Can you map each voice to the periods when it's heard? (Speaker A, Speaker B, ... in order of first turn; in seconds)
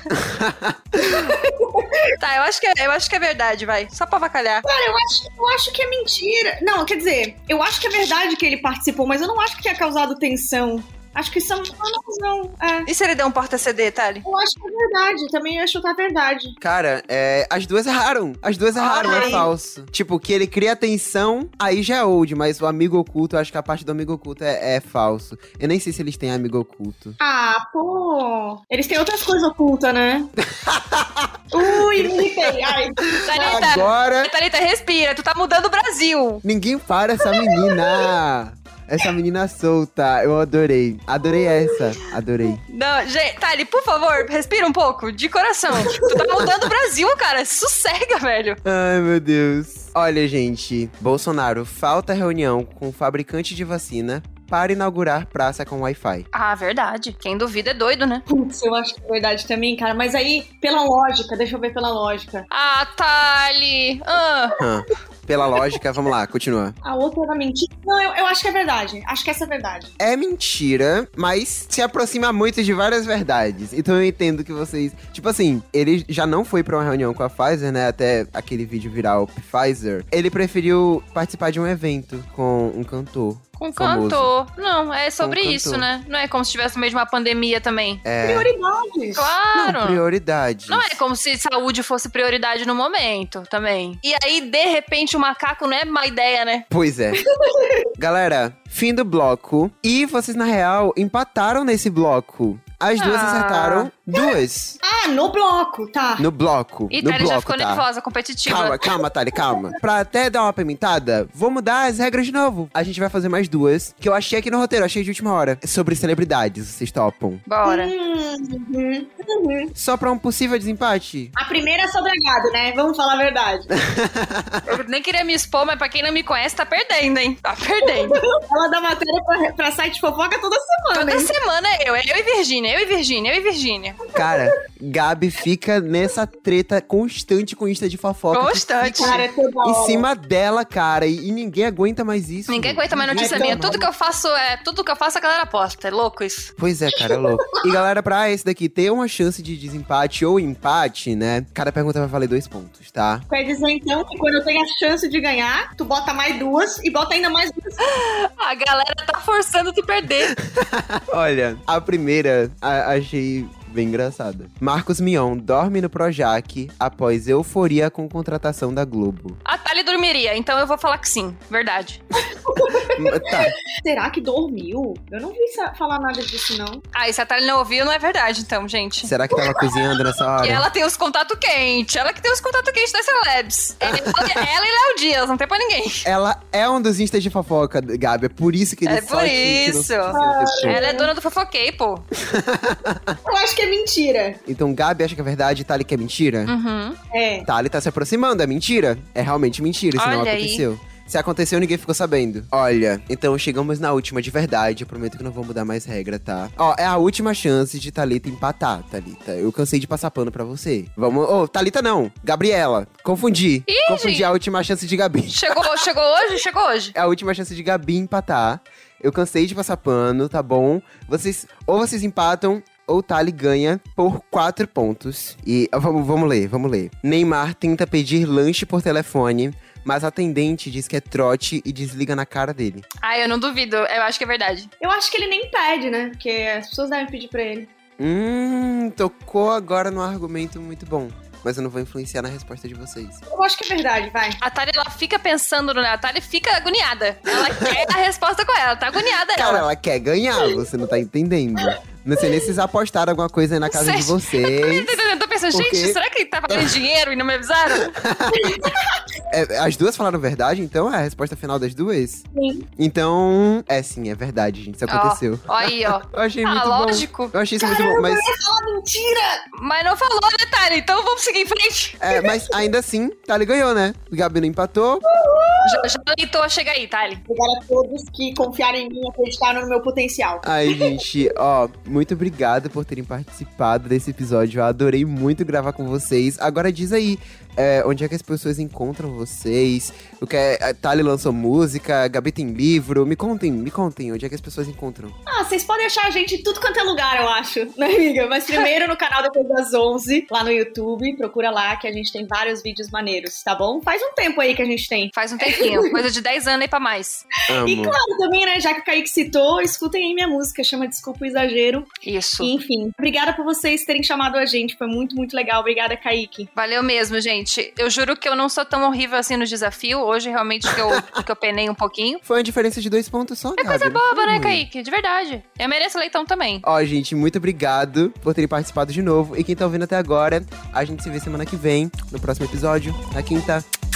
Speaker A: 0.1-1.1, 16.6-27.2, 30.4-34.3, 36.4-42.6, 48.6-56.3, 64.6-66.8, 70.0-84.3, 85.2-85.9, 88.0-88.5, 89.5-91.0, 96.7-97.2, 98.0-104.8, 106.2-107.8, 108.5-117.4, 119.7-121.3, 123.7-124.7, 134.1-143.8, 146.6-153.2, 160.4-169.4, 172.8-173.5, 179.0-180.7, 183.8-184.4, 186.0-190.9, 192.2-193.2, 194.4-196.5, 197.4-215.8, 216.9-232.8, 238.0-243.2, 249.3-255.0, 255.5-256.8, 257.9-258.7, 259.3-262.2, 262.8-268.3, 272.0-275.0, 280.4-295.1, 307.5-308.0, 320.7-321.2, 322.2-324.6, 326.6-333.6
Speaker B: 1.0-2.2, 4.6-12.9, 14.2-16.6, 19.0-19.5, 27.2-30.3, 31.5-33.9, 37.4-38.1, 41.4-41.7, 45.9-46.5, 58.3-62.5, 66.8-69.9, 88.2-89.3, 97.4-97.9, 104.8-106.2, 117.6-119.7, 121.3-123.7, 127.8-131.3, 134.1-134.5, 138.9-140.1, 143.1-143.8, 146.9-147.6, 153.3-157.8, 172.3-176.8, 179.3-179.7, 190.1-191.1, 193.2-194.4, 197.1-197.5, 234.8-237.7, 243.3-244.4, 258.3-259.1, 262.3-262.6, 267.6-269.4, 272.1-272.6, 275.1-275.9, 277.3-281.0, 295.2-306.0, 307.6-316.5
Speaker C: 2.2-4.6, 12.9-14.2, 18.7-19.5, 33.2-36.4, 42.7-48.6, 56.3-58.2, 62.5-64.5, 83.6-88.0, 89.2-90.0, 90.7-96.7, 103.0-103.9, 106.9-108.8, 117.5-117.9, 124.7-128.2, 130.9-134.0, 138.3-139.2, 142.5-146.5, 157.8-160.3, 169.4-172.0, 176.9-179.1, 180.4-186.1, 188.8-192.0, 196.5-197.0, 199.9-200.6, 213.7-214.3, 215.3-216.9, 233.0-234.7, 244.4-249.7, 253.7-257.9, 264.9-267.3, 269.5-272.0, 275.6-277.2, 305.1-307.2, 312.0-312.5, 316.5-322.2, 323.6-326.6